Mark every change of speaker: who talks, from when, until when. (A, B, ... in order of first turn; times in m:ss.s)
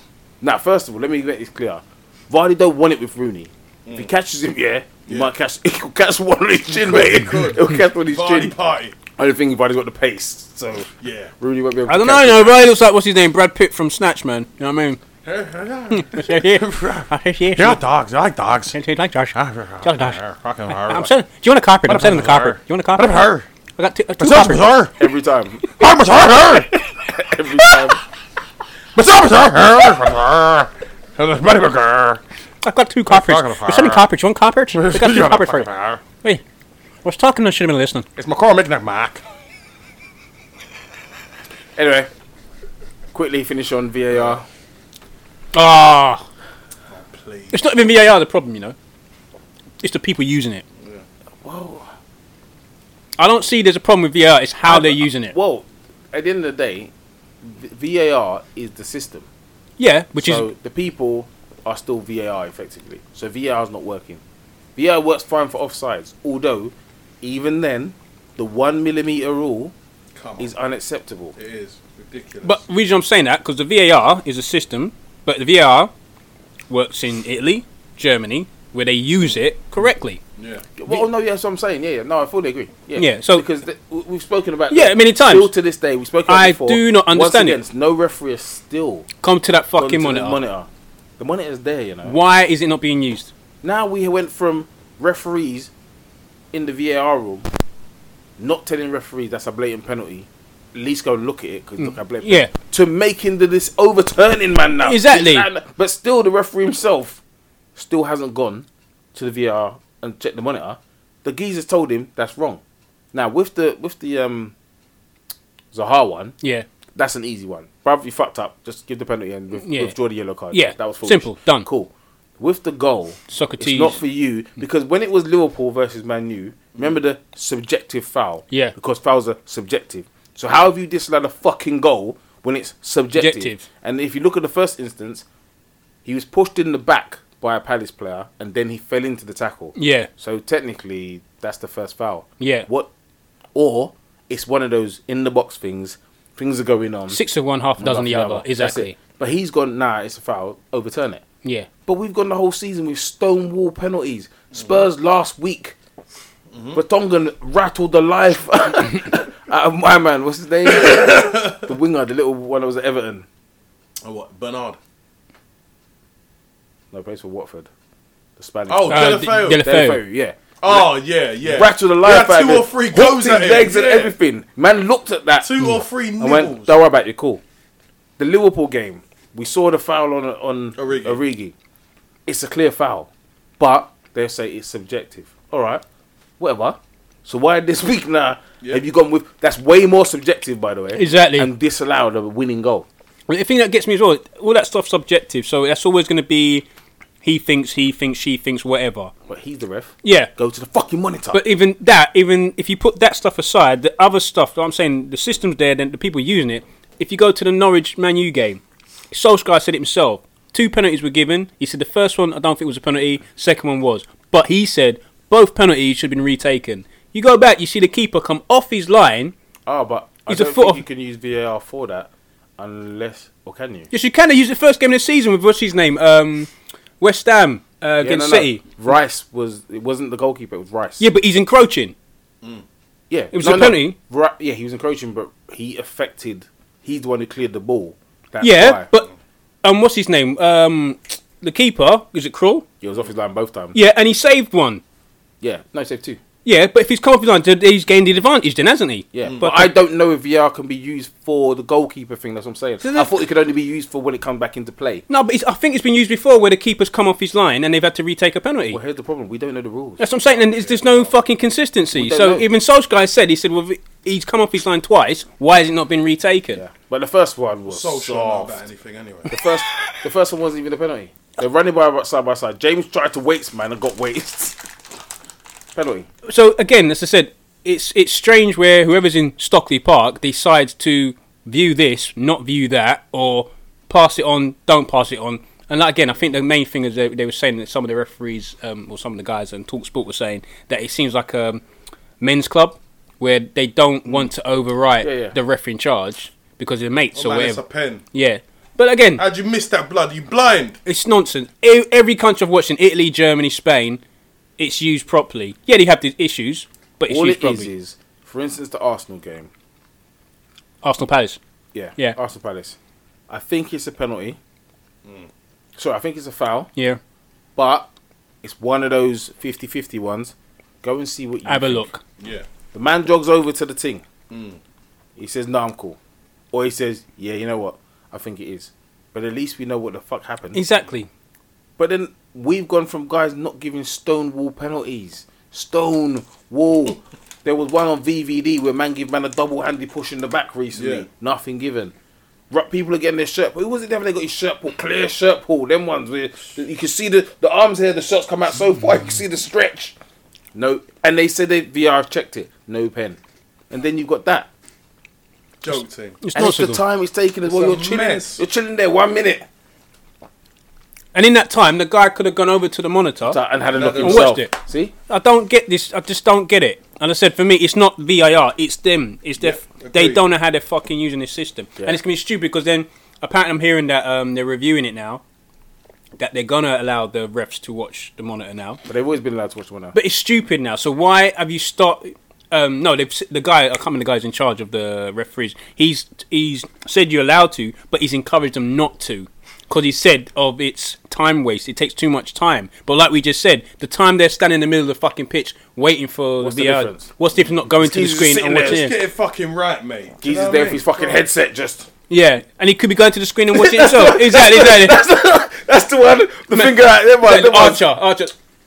0:00.4-0:08.6 A
0:06.7-0:09.0 B
0:09.1-0:12.6 A
0:11.0-0:11.3 B
0:11.9-0:15.0 C
0:15.2-0:18.8 B
0:15.9-0:17.8 C
0:18.7-0:24.7 C
0:19.3-0:21.1 B
0:21.9-0:23.5 B
0:24.2-0:25.0 B
0:25.0-0:25.7 A
0:25.8-0:26.7 B
0:27.0-0:28.0 A
0:28.9-0:32.2 B
0:32.6-0:35.7 C
0:33.1-0:34.0 B
0:34.7-0:36.0 B
0:37.0-0:38.1 C
0:38.2-0:39.2 B
0:41.8-0:42.1 A
0:43.1-0:44.4 A
0:44.1-0:44.4 B
0:45.5-0:46.2 C
0:46.9-0:47.6 B
0:47.5-0:48.7 C
0:49.8-0:50.6 C
0:51.4-0:51.9 A
0:53.2-0:55.4 C
0:54.6-0:59.3 A
0:59.8-1:00.5 C
1:00.2-1:04.2 A
1:04.8-1:09.7 A
1:10.1-1:10.5 B
1:10.4-1:11.4 A
1:11.4-1:12.6 B
1:12.4-1:15.9 C
1:16.7-1:20.2 C
1:20.4-1:20.6 B
1:20.8-1:29.1 A
1:23.0-1:23.4 C
1:24.7-1:25.5 C
1:26.3-1:27.6 C
1:29.2-1:30.4 C
1:29.8-1:30.7 A
1:31.2-1:32.2 A
1:32.1-1:33.3 C
1:33.6-1:35.7 A
1:36.5-1:37.5 A
1:38.4-1:47.2 A
1:41.8-1:42.5 C
1:44.8-1:45.5 C
1:47.8-1:52.6 A
1:53.1-1:54.5 A
1:55.7-1:56.4 A
1:57.0-2:15.2 A
1:59.6-1:59.9 C
2:00.5-2:01.6 C
2:03.3-2:04.0 C
2:13.2-2:13.6 C
2:16.0-2:22.9 A
2:19.8-2:20.1 C
2:22.4-2:22.7 C
2:23.6-2:27.2 A
2:27.1-2:29.0 C
2:27.8-2:31.2 A
2:31.9-2:35.8 A
2:36.5-2:36.8 B
2:36.7-2:43.3 A
2:40.6-2:41.6 B
2:44.0-2:44.8 B
2:46.9-2:47.7 A
2:48.4-2:50.9 A
2:48.7-2:49.6 B
2:48.9-2:50.0 C
2:50.6-2:54.2 B
2:51.4-2:55.5 A
2:55.4-2:56.8 B
2:56.2-2:57.4 A
2:58.2-3:01.6 A
3:00.8-3:01.2 B
3:02.3-3:05.8 A
3:06.4-3:12.9 A
3:11.0-3:11.5 C
3:13.3-3:16.7 C
3:17.2-3:19.1 C
3:19.3-3:21.4 A
3:20.0-3:20.3 C
3:21.3-3:39.4 C
3:39.7-3:43.9 A
3:40.3-3:40.8 C
3:43.9-3:48.8 C
3:48.0-3:51.0 A
3:51.0-3:51.9 C
3:53.1-3:58.9 A
3:53.3-3:54.0 C
3:58.4-3:59.1 C
3:59.6-4:02.6 C
4:02.8-4:03.8 A
4:03.7-4:04.8 C
4:05.4-4:06.2 A
4:06.4-4:09.7 C
4:09.1-4:15.1 A
4:12.8-4:13.2 C
4:15.1-4:18.8 C
4:18.7-4:20.0 A
4:20.0-4:26.6 C
4:20.3-4:21.1 B
4:21.9-4:22.4 A
4:26.6-4:28.6 A
4:27.7-4:29.3 B
4:29.3-4:34.6 A
4:35.7-4:36.1 A
4:36.3-4:51.6 C
4:52.2-4:57.6 C
4:55.0-4:55.4 A
4:57.1-4:58.0 B
4:58.1-4:59.2 C
4:59.2-5:00.8 B
5:00.9-5:04.0 C
5:04.6-5:07.7 C
5:07.1-5:09.5 A
5:10.8-5:11.4 C
5:11.7-5:12.8 A
5:13.3-5:14.4 A
5:15.8-5:16.7 A
5:17.6-5:17.9 A
5:18.4-5:21.9 A
5:21.5-5:22.0 C
5:22.2-5:22.4 B
5:22.7-5:24.0 A
5:24.3-5:24.6 B
5:25.2-5:26.0 A
5:26.5-5:30.6 A
5:30.6-5:31.1 C
5:31.8-5:41.9 A
5:40.7-5:41.1 B
5:42.5-5:49.9 A
5:50.5-5:53.2 A
5:53.7-5:54.5 A
5:55.6-5:56.2 B
5:55.7-5:56.8 C
5:56.4-5:59.5 A
5:57.4-5:58.4 B
6:01.1-6:03.4 C
6:03.3-6:04.9 A
6:03.7-6:04.4 B
6:04.0-6:04.5 C
6:05.1-6:15.2 C
6:09.4-6:10.2 B
6:16.2-6:18.8 C
6:18.9-6:19.9 A
6:19.9-6:39.0 C
6:36.4-6:37.1 A
6:37.8-6:38.9 A
6:38.6-6:41.2 B
6:40.2-6:41.9 A
6:42.1-6:45.0 C
6:43.5-6:47.8 A
6:46.5-6:48.3 C